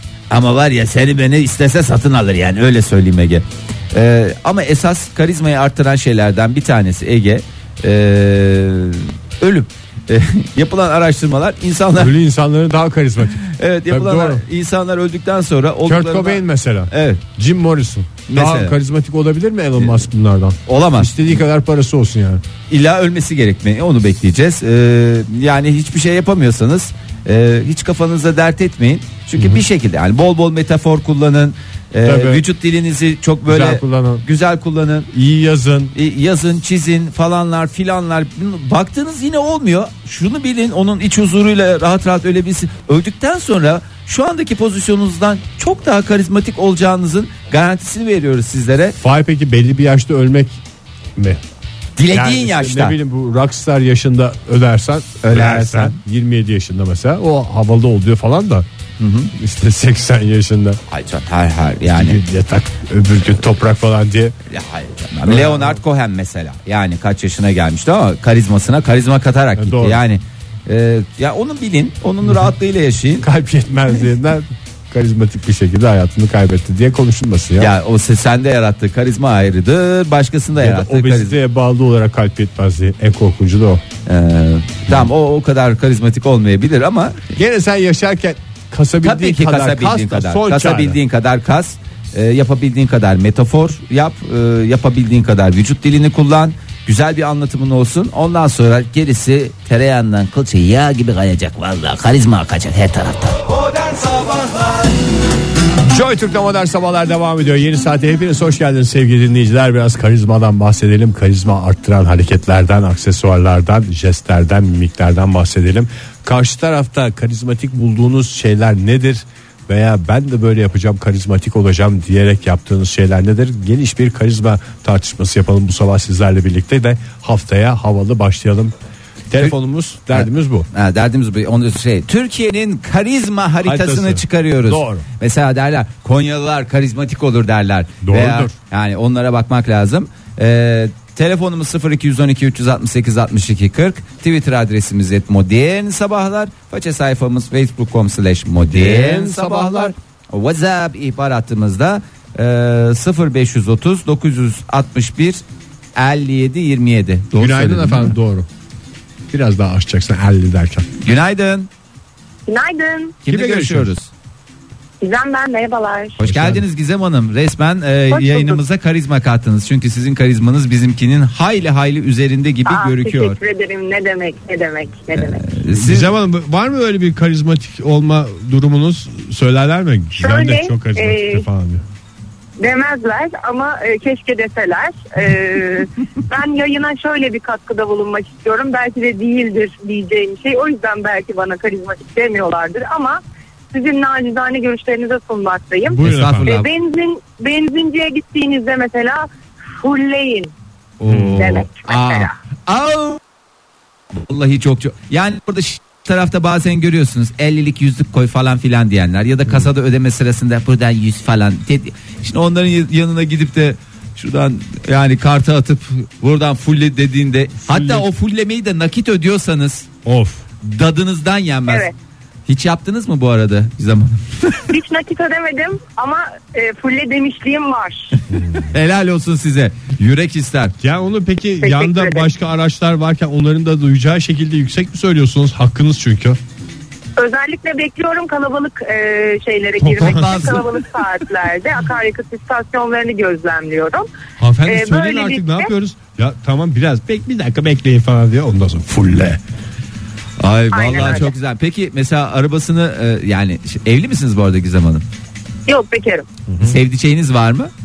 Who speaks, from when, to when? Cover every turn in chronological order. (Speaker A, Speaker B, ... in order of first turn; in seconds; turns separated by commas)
Speaker A: 0.3-12.1, Speaker B: 11.9-14.4, Speaker A: 13.3-17.2, Speaker B: 15.8-22.4, Speaker A: 18.3-18.8, Speaker A: 19.8-20.0, Speaker A: 20.6-21.4, Speaker A: 22.7-35.1, Speaker B: 29.4-29.6, Speaker B: 32.0-32.4, Speaker B: 33.5-34.2, Speaker B: 35.1-35.9, Speaker A: 35.9-49.0, Speaker B: 49.0-50.6, Speaker A: 52.0-53.0, Speaker B: 52.1-58.7, Speaker A: 55.2-56.0, Speaker A: 59.0-59.3, Speaker B: 59.4-60.8, Speaker A: 60.9-62.2, Speaker B: 61.9-64.3, Speaker A: 64.5-73.3, Speaker B: 65.2-65.8, Speaker B: 69.5-70.0, Speaker B: 73.2-77.7, Speaker A: 77.6-81.4, Speaker B: 80.6-83.8, Speaker A: 84.0-87.2, Speaker B: 87.3-91.0, Speaker A: 89.0-103.6, Speaker B: 105.8-128.7, Speaker B: 129.3-130.7, Speaker A: 130.1-155.4, Speaker B: 133.6-135.1, Speaker B: 138.0-138.5, Speaker B: 148.6-149.9, Speaker A: 155.9-158.2, Speaker B: 157.3-158.5, Speaker B: 159.3-160.9, Speaker A: 161.0-161.7, Speaker C: 162.5-163.2, Speaker A: 163.2-164.1, Speaker B: 163.3-163.9, Speaker C: 165.0-166.2, Speaker A: 166.2-173.4, Speaker B: 166.2-166.6, Speaker C: 168.1-168.6, Speaker C: 172.7-175.4, Speaker A: 175.1-176.1, Speaker B: 175.7-181.8, Speaker C: 180.2-181.4, Speaker C: 182.6-193.2, Speaker C: 193.7-200.5, Speaker B: 195.9-196.5, Speaker A: 196.0-196.7, Speaker A: 201.0-203.2, Speaker B: 201.1-201.6, Speaker C: 201.3-202.3, Speaker A: 204.2-219.9, Speaker B: 217.7-218.1, Speaker B: 220.0-220.4, Speaker A: 220.6-221.9, Speaker C: 221.7-221.9, Speaker A: 222.5-224.7, Speaker C: 224.7-228.2, Speaker B: 228.3-228.7, Speaker A: 228.5-230.7, Speaker B: 230.8-236.4, Speaker C: 231.6-232.3, Speaker C: 237.2-244.1, Speaker B: 239.8-240.6, Speaker A: 240.0-240.5, Speaker B: 244.4-249.4, Speaker C: 244.7-245.7, Speaker A: 250.4-255.0, Speaker C: 250.7-251.3, Speaker C: 255.7-256.3, Speaker B: 256.5-256.8, Speaker A: 256.6-257.7